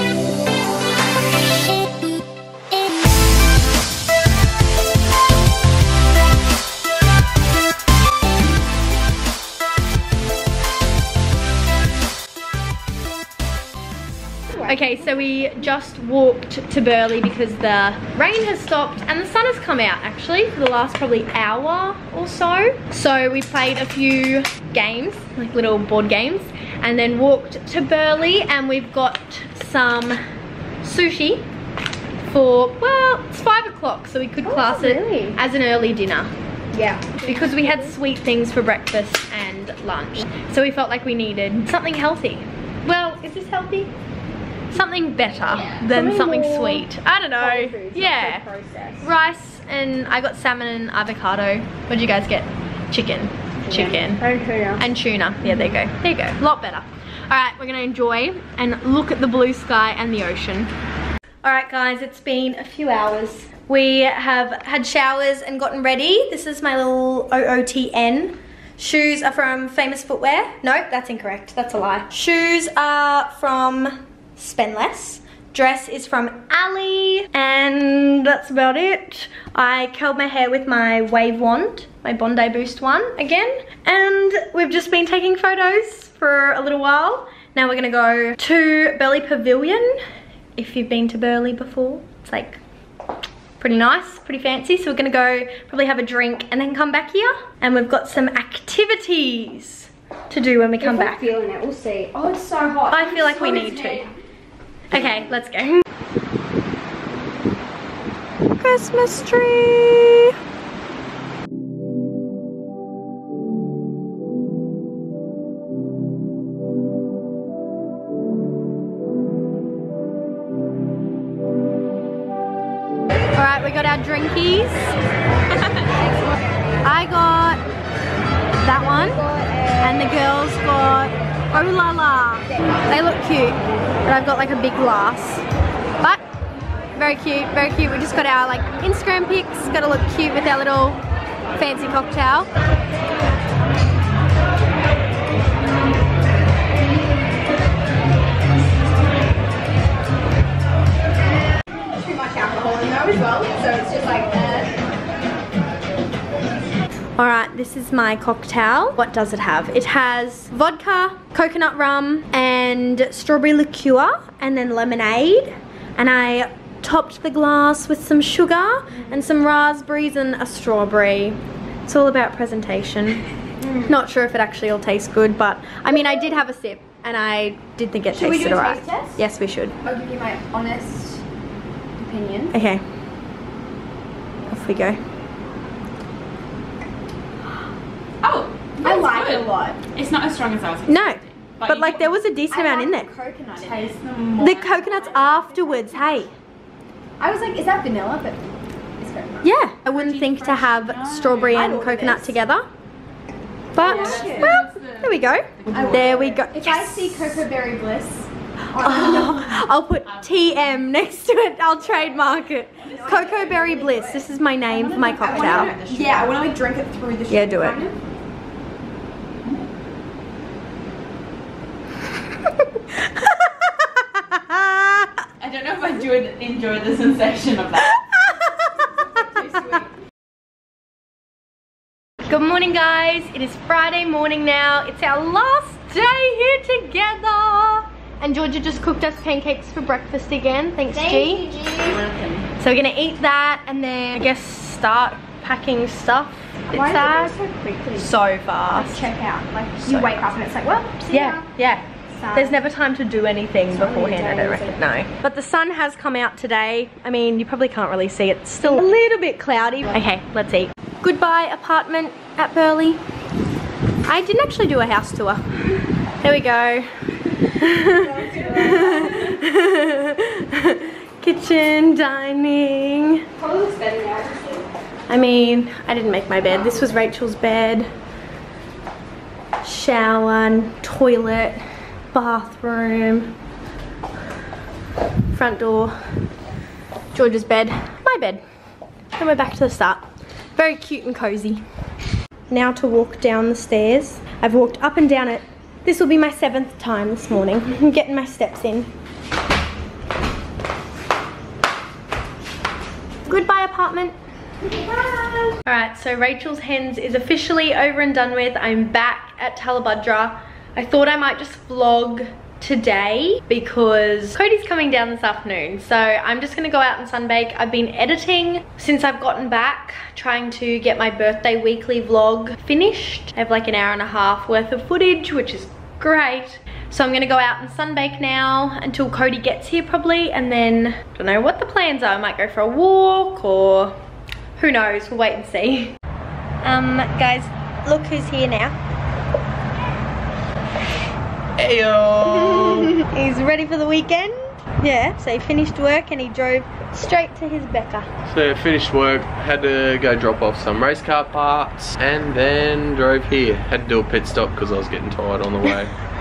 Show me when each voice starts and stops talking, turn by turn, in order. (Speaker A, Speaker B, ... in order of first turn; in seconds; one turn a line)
Speaker A: 14.6-30.2
Speaker A: 30.8-31.5
Speaker A: 32.2-36.3
Speaker B: 34.5-35.4
Speaker B: 36.7-37.8
Speaker A: 37.2-43.9
Speaker A: 44.7-48.4
Speaker B: 45.9-46.9
Speaker B: 47.4-49.1
Speaker A: 49.0-54.2
Speaker B: 53.7-54.8
Speaker A: 54.8-60.7
Speaker A: 61.4-90.0
Speaker A: 90.5-92.6
Speaker A: 93.6-101.3
Speaker B: 100.8-104.1
Speaker A: 102.9-104.1
Speaker A: 104.9-105.8
Speaker A: 108.6-110.3
Speaker A: 123.3-125.0
Speaker A: 126.8-127.6
Speaker A: 128.6-135.4
Speaker B: 129.0-129.9
Speaker A: 136.9-141.0
Speaker A: 141.6-142.5
Speaker B: 151.9-154.8
Speaker A: 157.2-173.2
Speaker A: 173.9-179.7
Speaker B: 178.1-179.2
Speaker B: 179.8-181.2
Speaker B: 182.0-182.5
Speaker A: 182.5-182.8
Speaker A: 184.5-185.0
Speaker C: 188.2-192.1
Speaker B: 188.8-189.8
Speaker A: 190.9-193.1
Speaker B: 192.5-193.9
Speaker C: 193.5-195.4
Speaker A: 194.4-196.3
Speaker B: 194.9-196.2
Speaker B: 197.2-198.5
Speaker B: 199.0-199.4
Speaker A: 199.4-202.6
Speaker C: 199.9-201.7
Speaker B: 201.6-202.3
Speaker A: 203.7-207.4
Speaker C: 203.8-206.2
Speaker B: 203.8-204.6
Speaker B: 205.7-209.4
Speaker A: 208.8-215.7
Speaker C: 212.8-213.6
Speaker B: 212.9-214.3
Speaker C: 214.9-216.5
Speaker B: 215.1-218.0
Speaker A: 217.3-217.8
Speaker A: 224.3-225.0
Speaker C: 225.4-228.1
Speaker C: 229.1-229.8
Speaker A: 232.2-241.5
Speaker B: 240.9-242.0
Speaker C: 241.8-242.5
Speaker A: 242.6-247.3
Speaker B: 246.7-248.1
Speaker A: 247.9-249.1
Speaker B: 248.7-251.4
Speaker C: 249.9-250.2
Speaker A: 251.1-263.0
Speaker B: 252.2-252.5
Speaker B: 253.7-254.8
Speaker A: 264.0-273.2
Speaker B: 267.9-269.3
Speaker B: 273.4-274.7
Speaker A: 275.1-277.9
Speaker A: 279.6-283.3
Speaker A: 285.3-286.0
Speaker A: 287.1-288.4
Speaker A: 289.1-291.6
Speaker A: 292.5-298.9
Speaker A: 303.2-304.1
Speaker A: 305.6-334.0
Speaker A: 334.6-335.9
Speaker A: 336.6-338.7
Speaker D: 341.6-342.9
Speaker A: 342.5-348.1
Speaker D: 348.3-355.9